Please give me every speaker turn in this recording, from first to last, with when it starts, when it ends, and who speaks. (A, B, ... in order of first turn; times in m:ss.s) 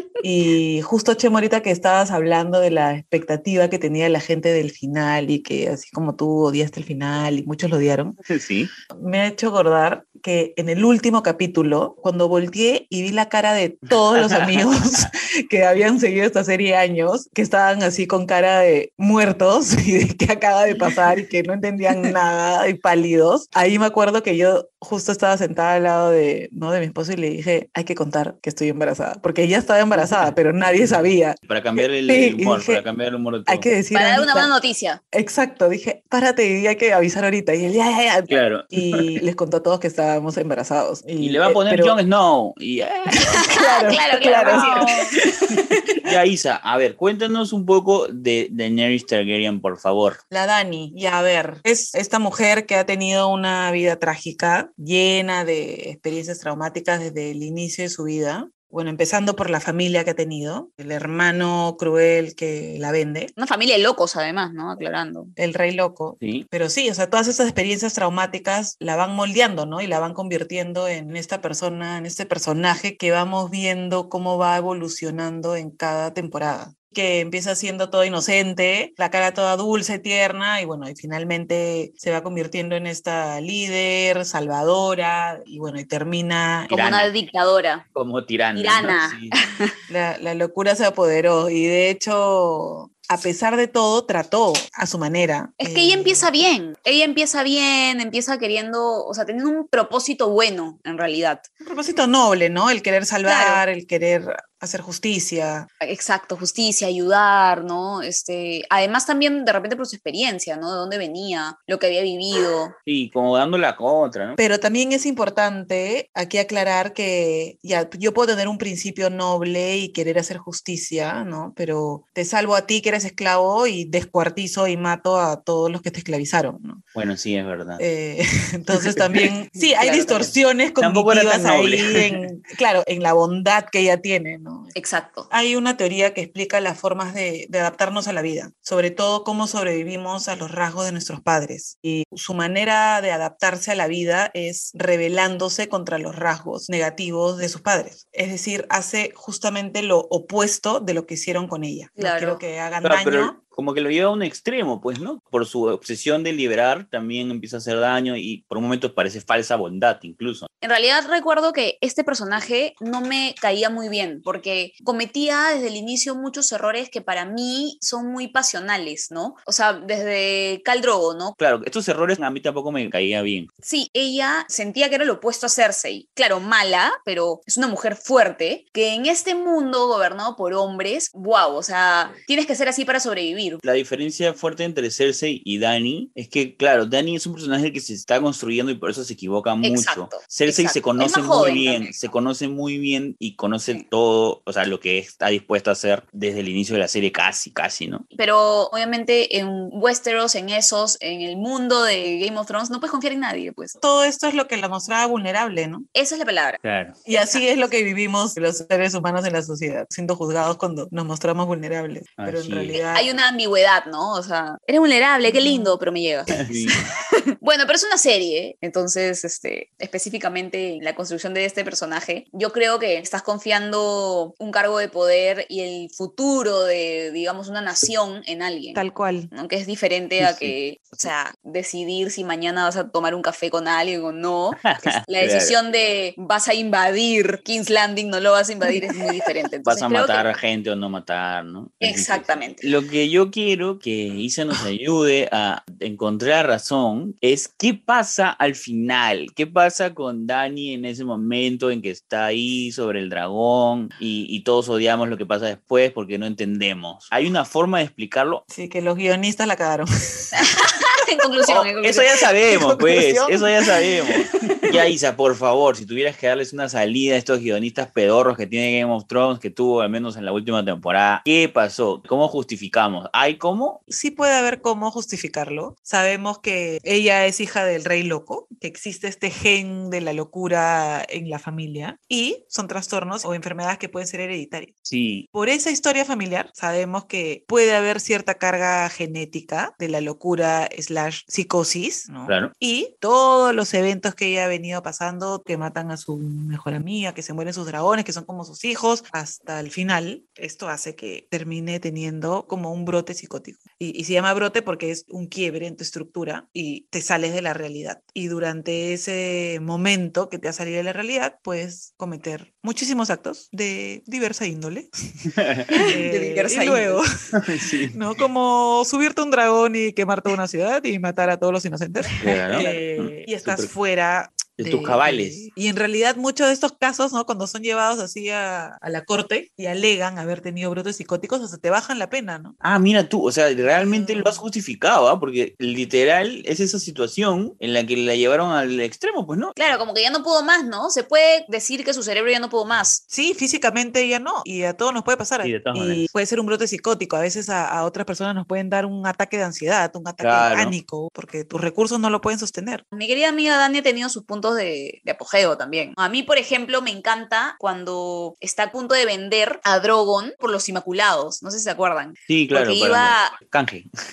0:00.2-0:08.2 A
0:08.3-0:08.7 B
0:08.9-0:32.8 A
0:13.9-0:15.0 B
0:29.9-0:30.3 B
0:31.4-0:33.7 B
0:33.5-0:34.5 A
0:33.9-0:35.0 C
0:35.1-0:42.0 A
0:38.3-0:39.2 B
0:41.2-0:43.4 B
0:43.2-0:45.1 A
0:43.4-0:45.1 C
0:44.4-0:50.2 B
0:50.3-1:03.3 A
1:03.4-1:05.3 C
1:05.4-1:26.8 A
1:06.2-1:06.5 B
1:26.7-1:27.1 B
1:26.7-1:27.8 C
1:28.0-1:29.4 B
1:28.6-1:29.7 C
1:29.9-1:36.3 A
1:35.6-1:41.5 C
1:41.6-1:45.7 A
1:43.3-1:43.6 C
1:45.8-1:52.8 C
1:52.9-1:54.4 B
1:54.4-2:06.8 A
2:06.9-2:07.8 B
2:07.8-2:14.7 A
2:08.8-2:09.2 B
2:09.6-2:10.3 C
2:10.8-2:12.3 B
2:14.8-2:15.3 C
2:15.3-2:33.4 A
2:32.0-2:32.4 C
2:32.8-2:40.5 B
2:40.6-2:51.4 C
2:51.4-2:53.5 B
2:53.6-3:03.6 C
3:03.6-3:18.0 B
3:09.6-3:12.0 C
3:18.1-3:23.8 C
3:23.8-3:25.9 A
3:26.0-3:26.6 C
3:26.6-3:27.0 B
3:27.1-3:33.1 A
3:27.1-3:27.7 C
3:32.2-3:32.8 B
3:32.7-3:36.5 C
3:35.2-3:35.8 A
3:36.3-3:36.8 B
3:37.4-4:00.3 C
3:48.7-3:49.3 A
3:50.2-3:51.1 B
3:54.6-3:55.6 B
3:59.7-4:18.4 B
4:01.8-4:02.7 C
4:18.5-4:20.4 A
4:20.4-4:22.2 C
4:21.5-4:33.8 B
4:22.4-4:23.7 A
4:24.2-4:24.7 C
4:33.9-4:44.7 A
4:44.8-4:45.3 B
4:45.3-5:14.9 A
4:52.3-4:52.5 B
5:15.4-5:15.8 B
5:15.7-5:17.0 C
5:15.8-5:17.0 A
5:17.4-5:18.0 B
5:17.9-5:32.6 A
5:22.2-5:23.7 B
5:22.5-5:22.8 C
5:24.6-5:25.5 B
5:32.6-5:39.6 B
5:33.6-5:34.4 A
5:39.6-5:43.0 C
5:43.1-5:52.8 A
5:45.4-5:46.1 B
5:50.2-5:50.8 B
5:52.9-6:03.4 C
6:02.3-6:03.9 B